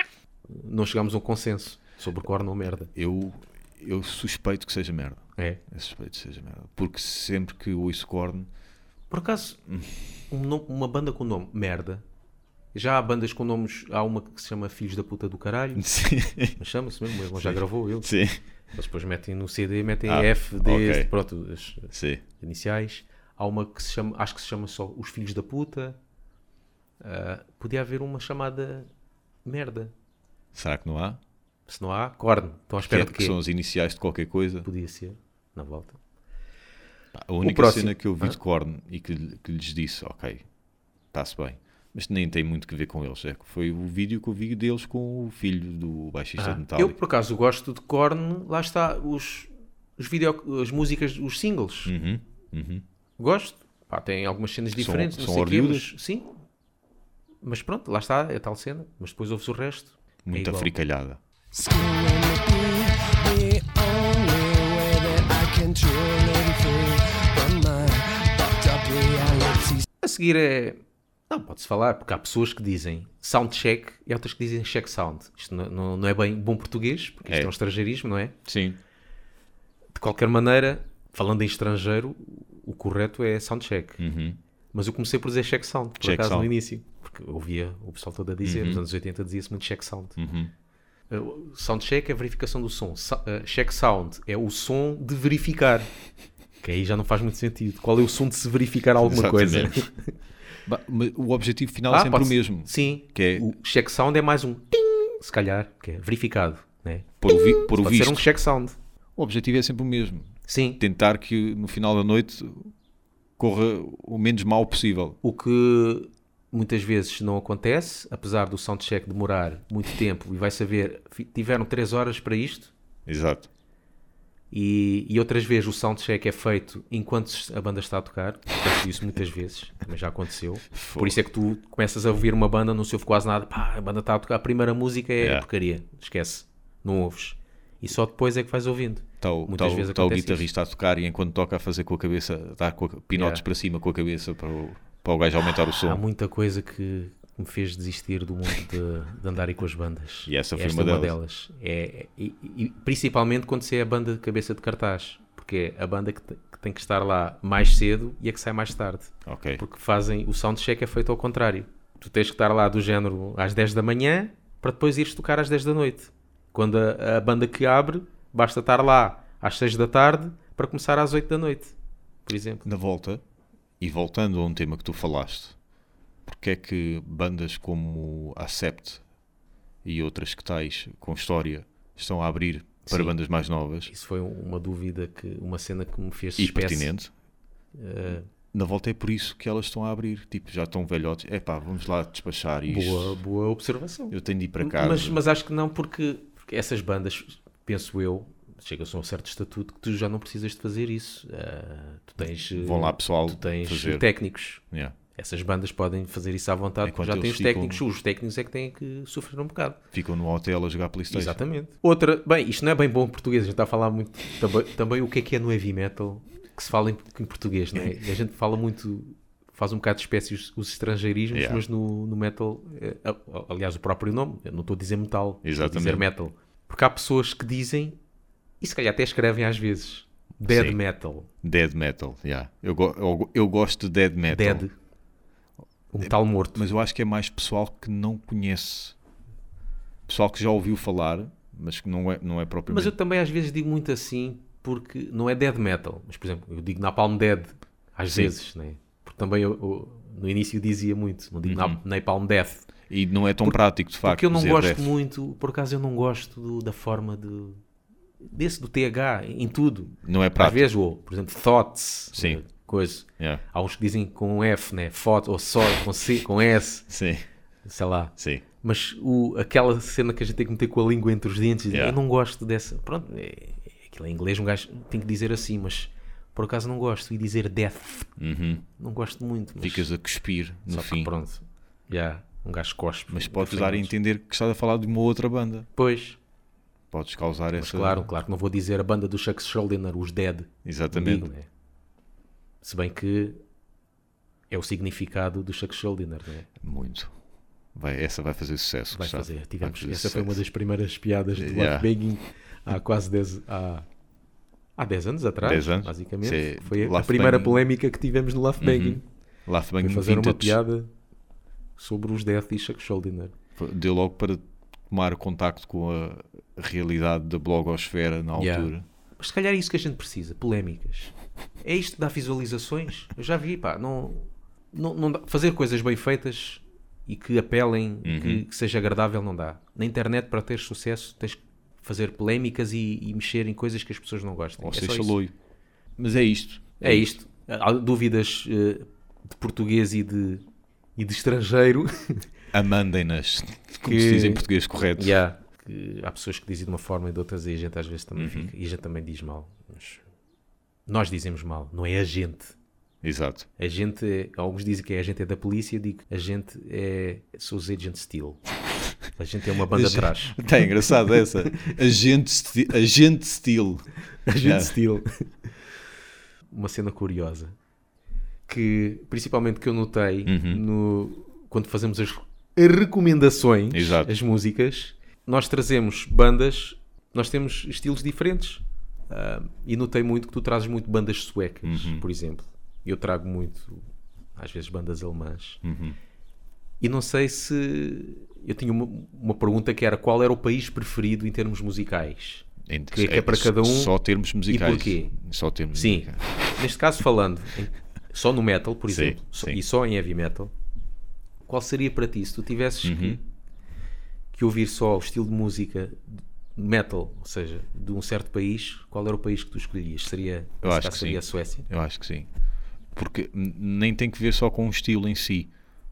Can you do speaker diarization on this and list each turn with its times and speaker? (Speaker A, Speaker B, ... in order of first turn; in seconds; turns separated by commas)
Speaker A: 0.5-2.9, Speaker B: 2.9-8.5, Speaker A: 9.1-9.6, Speaker B: 9.7-9.9, Speaker A: 10.3-12.0, Speaker A: 12.7-15.9, Speaker B: 15.8-16.6, Speaker A: 16.6-18.1, Speaker B: 17.4-18.4, Speaker A: 18.7-26.0, Speaker B: 20.1-21.1, Speaker B: 21.9-22.2, Speaker A: 27.0-28.9, Speaker A: 29.4-29.9, Speaker B: 30.5-31.2, Speaker A: 31.7-33.3, Speaker B: 32.8-34.7, Speaker A: 34.6-36.0, Speaker B: 37.1-40.4, Speaker A: 37.4-38.4, Speaker B: 41.1-47.0, Speaker A: 46.4-51.9, Speaker B: 51.9-52.8, Speaker A: 53.2-56.3, Speaker B: 54.7-55.9, Speaker A: 57.4-60.7, Speaker B: 60.2-61.2, Speaker C: 61.5-69.8, Speaker A: 70.0-78.3, Speaker B: 77.3-77.5, Speaker B: 78.4-78.8, Speaker A: 79.9-84.0, Speaker B: 84.0-84.4, Speaker A: 84.7-90.2, Speaker B: 86.0-86.5, Speaker B: 88.4-88.8, Speaker B: 90.2-90.5, Speaker A: 91.1-95.9, Speaker A: 96.6-100.1, Speaker B: 99.0-99.8, Speaker B: 100.7-103.5, Speaker A: 101.9-108.8, Speaker B: 107.2-108.3, Speaker B: 109.2-112.7, Speaker A: 110.5-110.8, Speaker B: 113.4-115.2, Speaker A: 115.2-122.7, Speaker B: 123.0-123.5, Speaker A: 124.5-140.4, Speaker B: 130.7-131.2, Speaker B: 135.2-135.4, Speaker B: 139.2-146.0, Speaker A: 143.1-143.4, Speaker A: 145.8-171.7, Speaker B: 150.2-151.1, Speaker B: 159.2-159.6, Speaker A: 172.2-172.6, Speaker B: 172.6-173.2, Speaker B: 173.8-175.6, Speaker B: 176.2-179.0, Speaker B: 179.8-183.9, Speaker A: 182.9-183.1, Speaker A: 183.9-186.9, Speaker B: 186.4-187.1, Speaker A: 187.7-188.3, Speaker B: 188.5-193.2, Speaker A: 192.7-204.6, Speaker B: 194.1-195.2, Speaker B: 202.5-204.1, Speaker B: 204.7-204.9, Speaker A: 205.1-209.8, Speaker B: 206.8-207.8, Speaker B: 209.9-211.4, Speaker A: 211.1-228.0, Speaker B: 221.3-221.6, Speaker B: 225.4-226.1, Speaker A: 228.6-231.3, Speaker B: 230.5-230.8, Speaker B: 231.4-234.6, Speaker A: 234.3-234.7, Speaker A: 235.9-236.6, Speaker B: 236.0-238.9, Speaker B: 240.1-242.9, Speaker A: 242.7-252.7, Speaker B: 251.4-251.8, Speaker B: 252.9-254.9, Speaker A: 253.4-257.6, Speaker A: 258.2-266.9, Speaker B: 260.0-260.7, Speaker B: 262.1-262.4, Speaker B: 266.9-267.3, Speaker A: 267.6-278.1, Speaker B: 268.2-268.4, Speaker B: 271.7-272.0, Speaker B: 278.2-278.6, Speaker A: 278.8-279.9, Speaker B: 279.6-281.1, Speaker A: 280.7-283.9, Speaker B: 283.1-285.7, Speaker A: 285.8-286.2, Speaker B: 286.9-288.1, Speaker A: 287.6-291.5, Speaker B: 290.6-291.3, Speaker A: 292.6-293.4, Speaker A: 294.5-296.5, Speaker B: 296.6-297.1, Speaker B: 297.7-300.4, Speaker A: 298.9-303.8, Speaker B: 301.4-301.9, Speaker A: 304.8-309.0, Speaker B: 305.4-307.6, Speaker B: 308.6-310.6, Speaker A: 309.8-310.9, Speaker A: 311.8-313.3, Speaker B: 313.6-318.9, Speaker A: 318.4-335.1, Speaker B: 328.0-328.4, Speaker B: 334.6-335.3, Speaker B: 336.0-337.1, Speaker A: 336.8-340.4, Speaker A: 341.0-342.3, Speaker B: 342.5-345.2, Speaker A: 343.8-350.0, Speaker B: 348.1-348.5, Speaker A: 350.9-352.5, Speaker B: 353.0-353.5, Speaker A: 353.6-358.4, Speaker A: 359.1-360.4, Speaker B: 359.7-363.9, Speaker A: 364.2-365.1, Speaker B: 364.4-364.8, Speaker A: 366.5-367.5, Speaker A: 368.5-383.8, Speaker B: 370.2-370.6, Speaker B: 373.7-374.1, Speaker B: 381.6-382.0, Speaker A: 384.4-385.6, Speaker B: 385.6-386.0, Speaker A: 386.8-393.9, Speaker B: 392.7-396.2, Speaker A: 394.5-395.1, Speaker A: 395.7-400.5, Speaker B: 398.9-399.6, Speaker A: 401.4-403.2, Speaker B: 402.8-403.2, Speaker A: 404.3-411.7, Speaker B: 410.6-412.3, Speaker B: 412.9-415.5